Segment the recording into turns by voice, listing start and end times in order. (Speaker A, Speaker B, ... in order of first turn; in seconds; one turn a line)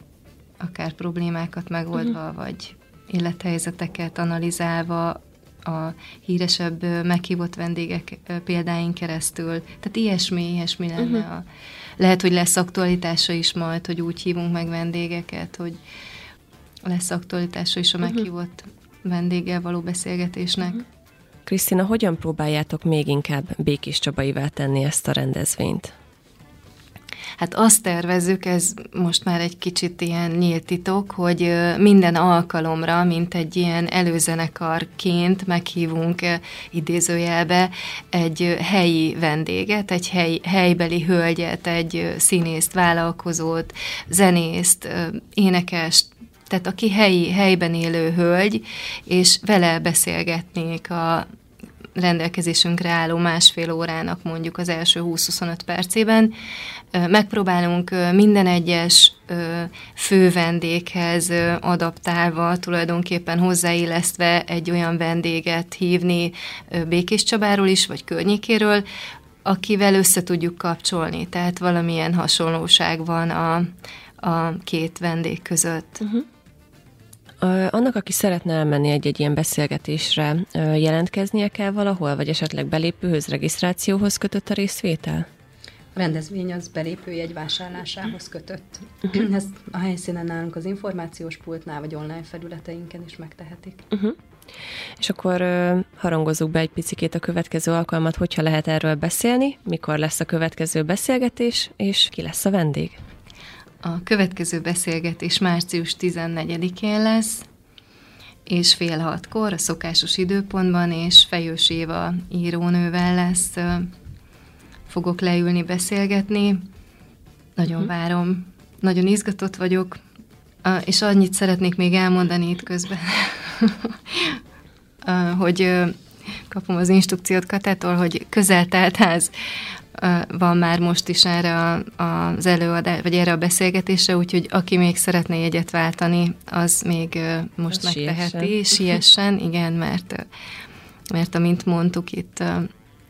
Speaker A: 0.6-11.5
Speaker A: 12.0-15.8
Speaker A: 16.9-20.8
Speaker B: 21.5-25.9
Speaker A: 27.4-51.2
Speaker A: 52.0-56.3
Speaker A: 56.9-68.8
Speaker A: 69.4-76.0
Speaker B: 77.4-85.3
Speaker C: 86.0-93.8
Speaker B: 95.0-103.0
Speaker A: 103.8-107.5
Speaker A: 108.5-113.9
Speaker A: 114.9-116.6
Speaker A: 117.6-120.0
Speaker A: 120.6-124.4
Speaker A: 125.0-126.0
Speaker A: 126.5-129.3
Speaker A: 129.9-140.2
Speaker B: 137.7-138.6
Speaker A: 141.1-142.7